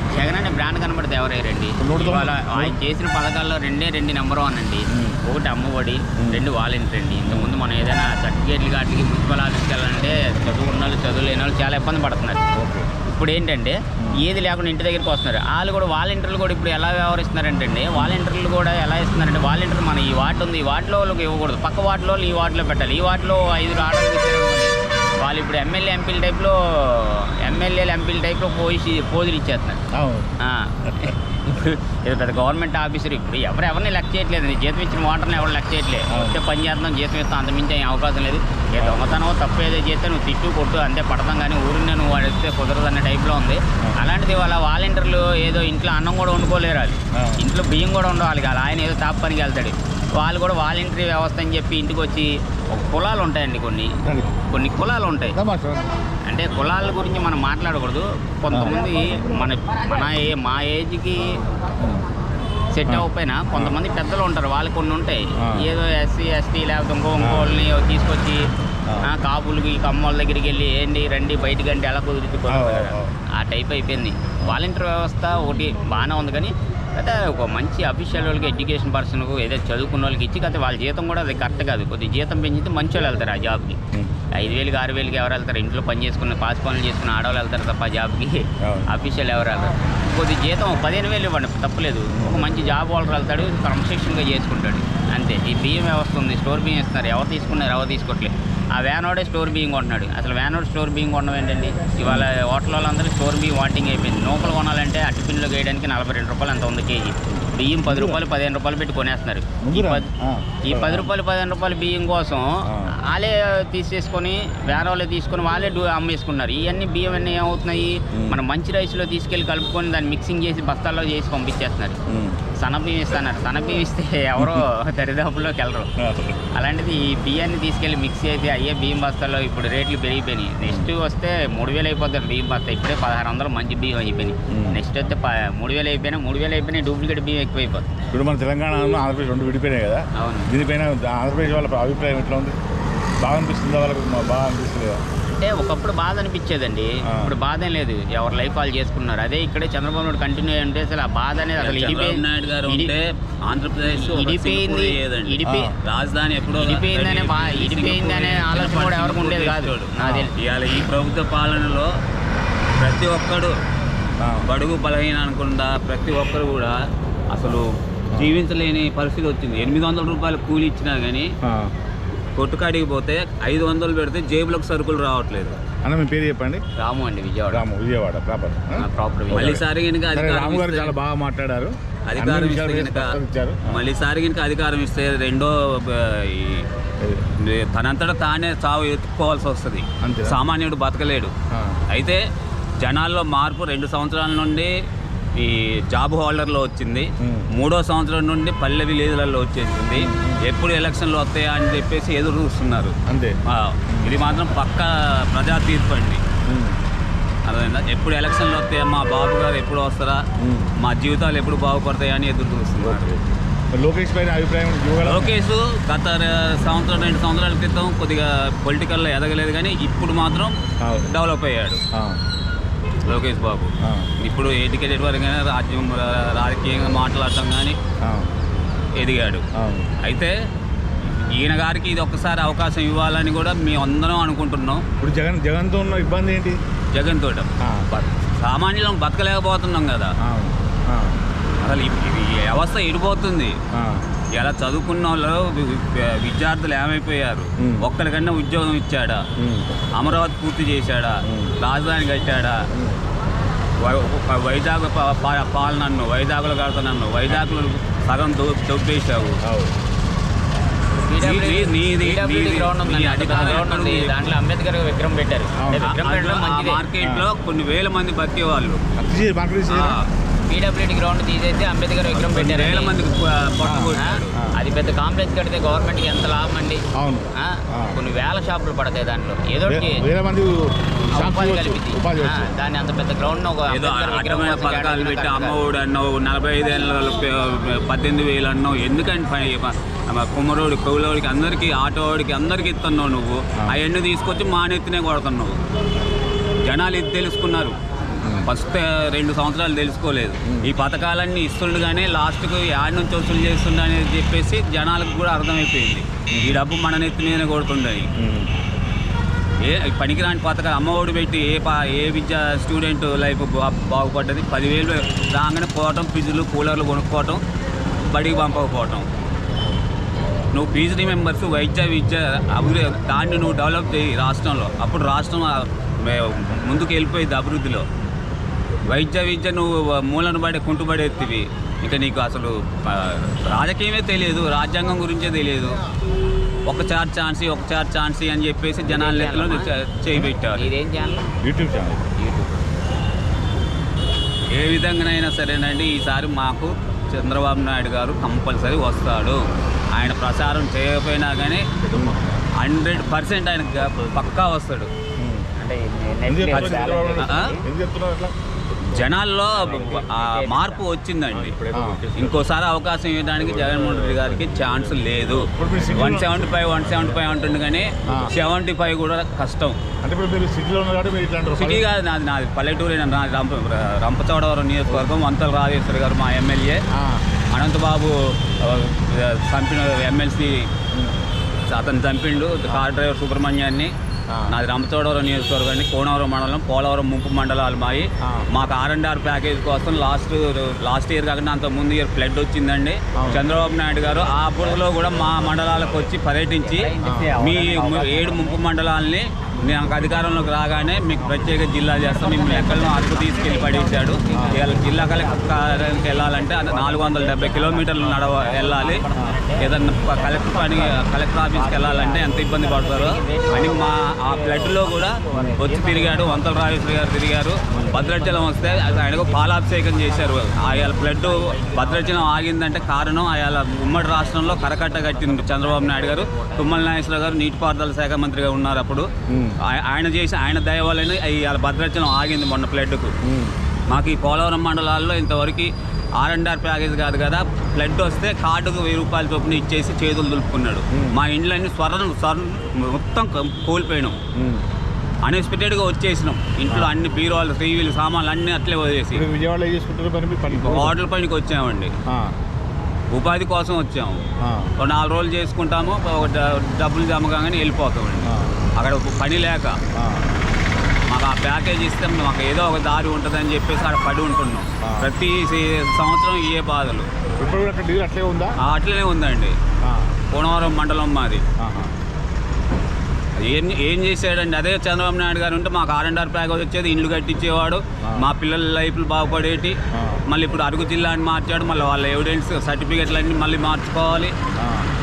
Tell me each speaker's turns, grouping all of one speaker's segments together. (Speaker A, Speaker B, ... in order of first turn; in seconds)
Speaker A: 0.1-12.4, 13.1-29.8, 30.4-54.0, 54.5-55.4, 56.3-61.4, 62.7-68.5, 69.0-83.8, 84.3-110.1, 110.7-122.0, 122.6-125.9, 126.5-137.9, 140.2-140.5, 145.2-152.9, 154.0-155.7, 156.6-160.3, 176.8-177.6, 178.8-179.6, 260.9-266.8, 270.5-272.9, 273.9-276.8, 277.3-280.1, 281.1-285.6, 338.9-339.7, 340.5-341.3, 342.2-342.6, 355.6-357.6, 359.4-360.8, 396.6-398.6, 401.9-416.9, 417.6-422.4, 424.1-426.8
Speaker B: 1.8-2.8, 4.9-5.2, 6.2-6.4, 7.3-7.5, 12.6-12.9, 29.9-30.3, 36.1-36.4, 38.8-39.1, 47.1-47.4, 54.0-54.4, 55.3-56.1, 61.8-62.0, 62.9-63.8, 65.4-65.7, 67.2-67.5, 72.5-73.1, 88.6-88.9, 92.1-92.5, 102.0-102.3, 107.3-108.2, 109.6-111.1, 118.1-118.4, 122.1-122.4, 124.4-124.7, 126.0-126.4, 134.5-134.8, 138.1-142.6, 143.2-145.0, 147.1-147.3, 155.4-155.7, 160.0-160.3, 164.2-164.5, 171.4-171.7, 175.8-176.6, 177.5-183.8, 190.0-190.4, 191.5-191.8, 197.2-197.5, 199.9-200.4, 203.1-203.4, 203.9-204.2, 206.4-206.8, 210.4-210.7, 212.8-215.3, 220.8-221.1, 221.9-222.2, 223.8-224.1, 228.0-228.3, 229.6-229.9, 235.0-236.6, 237.6-237.8, 240.2-241.2, 243.7-244.0, 247.6-247.9, 249.4-249.8, 251.3-251.5, 259.4-259.7, 265.6-265.9, 267.0-267.3, 269.0-270.0, 273.6-274.5, 276.9-278.0, 279.6-282.5, 298.2-298.5, 306.3-306.6, 308.2-308.5, 341.4-342.0, 351.9-352.2, 355.2-355.5, 356.3-358.3, 361.7-362.1, 365.3-366.5, 368.1-368.3, 370.0-371.8, 376.9-377.2, 380.9-381.3, 384.3-384.5, 393.2-393.4, 397.0-397.3, 399.6-399.9, 401.2-401.6, 404.3-404.6, 429.3-429.6, 433.2-433.6, 440.9-441.2, 444.3-444.6, 449.1-450.9, 452.1-452.3, 454.4-454.7, 458.2-458.5, 459.9-460.4, 464.8-465.1, 467.4-468.6, 469.8-470.1, 471.6-471.9, 479.9-480.2, 484.6-484.9
Speaker C: 151.6-161.9, 162.8-163.6, 164.4-166.8, 167.3-171.3, 172.4-175.6, 179.3-180.9, 182.1-183.2, 183.7-186.7, 187.4-191.3, 191.9-192.2, 192.8-194.7, 195.3-206.2, 207.4-210.2, 210.8-213.2, 215.0-221.8, 223.1-227.8, 229.0-229.4, 230.0-230.3, 231.0-234.8, 236.9-240.1, 241.6-243.6, 244.3-249.2, 249.9-252.6, 253.8-259.4, 261.2-264.2, 265.9-268.8, 269.7-270.1, 272.1-274.3, 283.7-295.6, 296.6-308.1, 309.6-317.4, 318.1-319.1, 320.5-327.9, 328.9-335.8, 336.7-340.7, 344.5-352.0, 352.6-354.9, 357.2-357.5, 358.9-369.8, 371.5-376.8, 377.5-380.7, 381.7-383.9, 384.5-409.0, 409.6-429.1, 429.6-433.1, 433.9-444.2, 445.2-449.3, 450.5-451.9, 453.1-454.2, 454.8-459.8, 461.1-467.1, 468.6-469.6, 470.3-471.4, 473.4-484.3